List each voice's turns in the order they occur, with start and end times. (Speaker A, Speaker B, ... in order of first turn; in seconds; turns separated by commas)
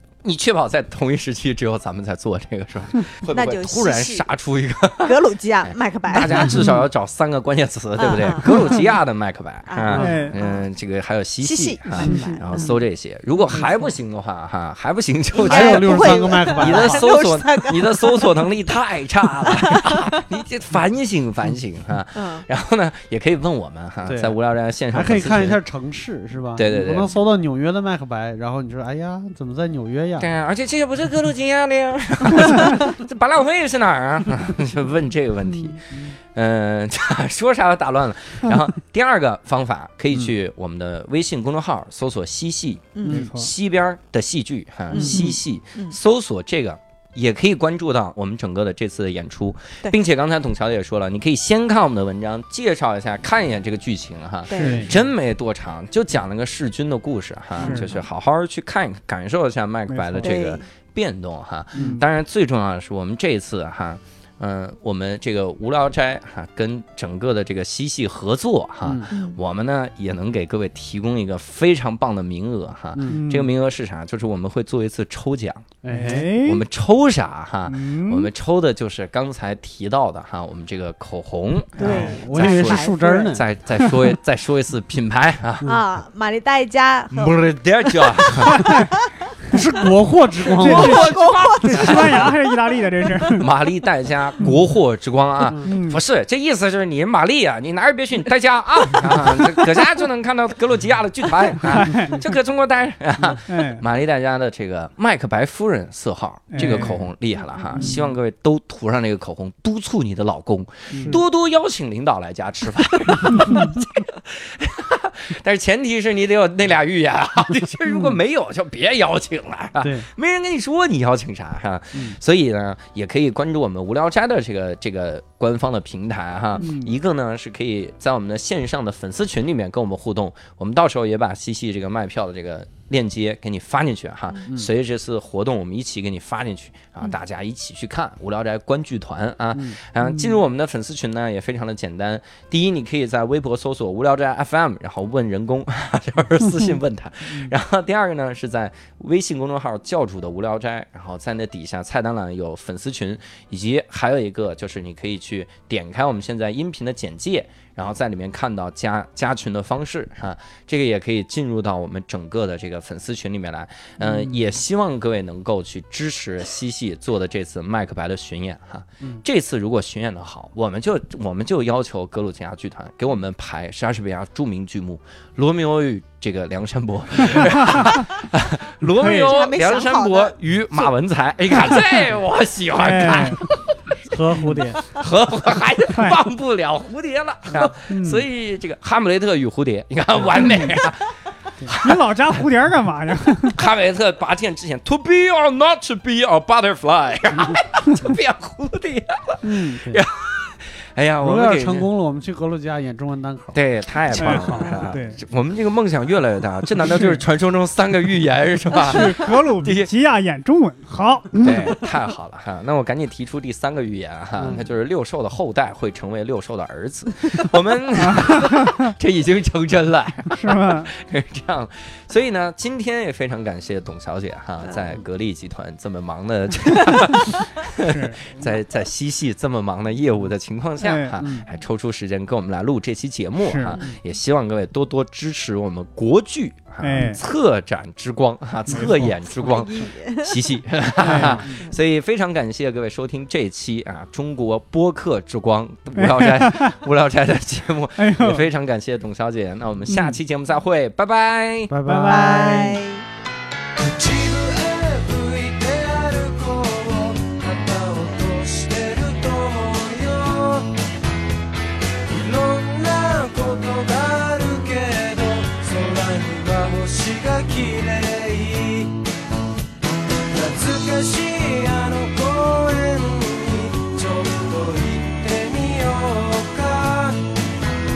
Speaker A: 0.2-25.6, Speaker B: 3.3-4.2, Speaker B: 5.0-6.7, Speaker B: 8.0-8.9, Speaker B: 9.7-10.7, Speaker C: 9.9-10.3, Speaker D: 10.0-10.4, Speaker B: 11.4-12.8, Speaker D: 11.9-12.5, Speaker C: 12.0-12.3, Speaker C: 15.4-17.1, Speaker B: 15.4-18.4, Speaker B: 19.6-20.0, Speaker B: 22.1-22.4, Speaker C: 24.1-24.4, Speaker C: 24.9-30.3, Speaker A: 26.6-27.1, Speaker A: 30.2-85.7, Speaker D: 35.5-35.8, Speaker B: 43.0-43.3, Speaker C: 43.1-43.3, Speaker D: 43.1-43.5, Speaker B: 44.9-46.0, Speaker C: 45.0-45.3, Speaker B: 54.5-54.8, Speaker D: 54.5-55.0, Speaker C: 54.6-54.9, Speaker B: 57.6-58.1, Speaker D: 57.6-57.9, Speaker D: 59.9-60.3, Speaker B: 60.2-60.7, Speaker C: 61.8-62.0, Speaker D: 61.8-62.0, Speaker C: 68.8-69.1, Speaker B: 69.1-69.4, Speaker C: 73.0-73.2, Speaker D: 73.1-73.5, Speaker C: 75.8-76.3, Speaker D: 75.9-76.6, Speaker D: 77.7-78.3, Speaker B: 81.8-83.3, Speaker C: 81.8-83.5, Speaker D: 81.8-82.2, Speaker B: 85.6-89.3, Speaker A: 87.1-88.9, Speaker D: 88.6-88.9, Speaker C: 89.5-91.1, Speaker B: 90.6-92.2, Speaker D: 90.6-93.5, Speaker A: 90.6-92.4, Speaker A: 93.3-183.9, Speaker D: 95.6-96.0, Speaker D: 101.7-102.2, Speaker D: 103.5-103.8, Speaker D: 106.5-107.1, Speaker C: 106.6-106.9, Speaker C: 107.8-108.1, Speaker C: 110.9-111.2, Speaker D: 110.9-111.2, Speaker C: 113.2-113.5, Speaker D: 113.3-113.8, Speaker C: 117.9-118.1, Speaker C: 119.8-120.1, Speaker D: 126.6-126.9, Speaker C: 139.6-140.3, Speaker C: 164.0-164.5, Speaker D: 178.9-179.4, Speaker B: 179.0-180.9, Speaker D: 182.8-183.4, Speaker C: 184.1-184.8, Speaker D: 184.3-184.7, Speaker A: 184.9-192.4, Speaker D: 185.9-186.2, Speaker D: 187.9-188.2, Speaker D: 190.3-190.8, Speaker D: 191.7-193.6, Speaker A: 193.5-201.9, Speaker C: 199.4-200.0, Speaker C: 201.2-203.6, Speaker A: 203.5-209.9, Speaker C: 204.1-204.9, Speaker D: 204.1-205.2, Speaker B: 204.6-204.9, Speaker D: 208.8-211.8, Speaker A: 211.4-251.7, Speaker C: 214.4-214.7, Speaker D: 218.0-218.9, Speaker D: 220.3-220.9, Speaker B: 224.7-224.9, Speaker D: 227.8-228.3, Speaker D: 230.8-231.2, Speaker C: 231.2-231.5, Speaker D: 233.4-233.8, Speaker B: 233.7-234.0, Speaker D: 236.8-237.2, Speaker D: 238.7-239.1, Speaker B: 239.2-240.4, Speaker D: 241.0-241.5, Speaker C: 241.0-241.6, Speaker D: 245.9-246.8, Speaker D: 248.0-248.5, Speaker D: 249.9-250.2, Speaker C: 251.7-252.8, Speaker D: 251.8-252.8, Speaker B: 252.1-253.1, Speaker E: 253.8-260.8, Speaker E: 262.1-269.1, Speaker E: 270.3-277.3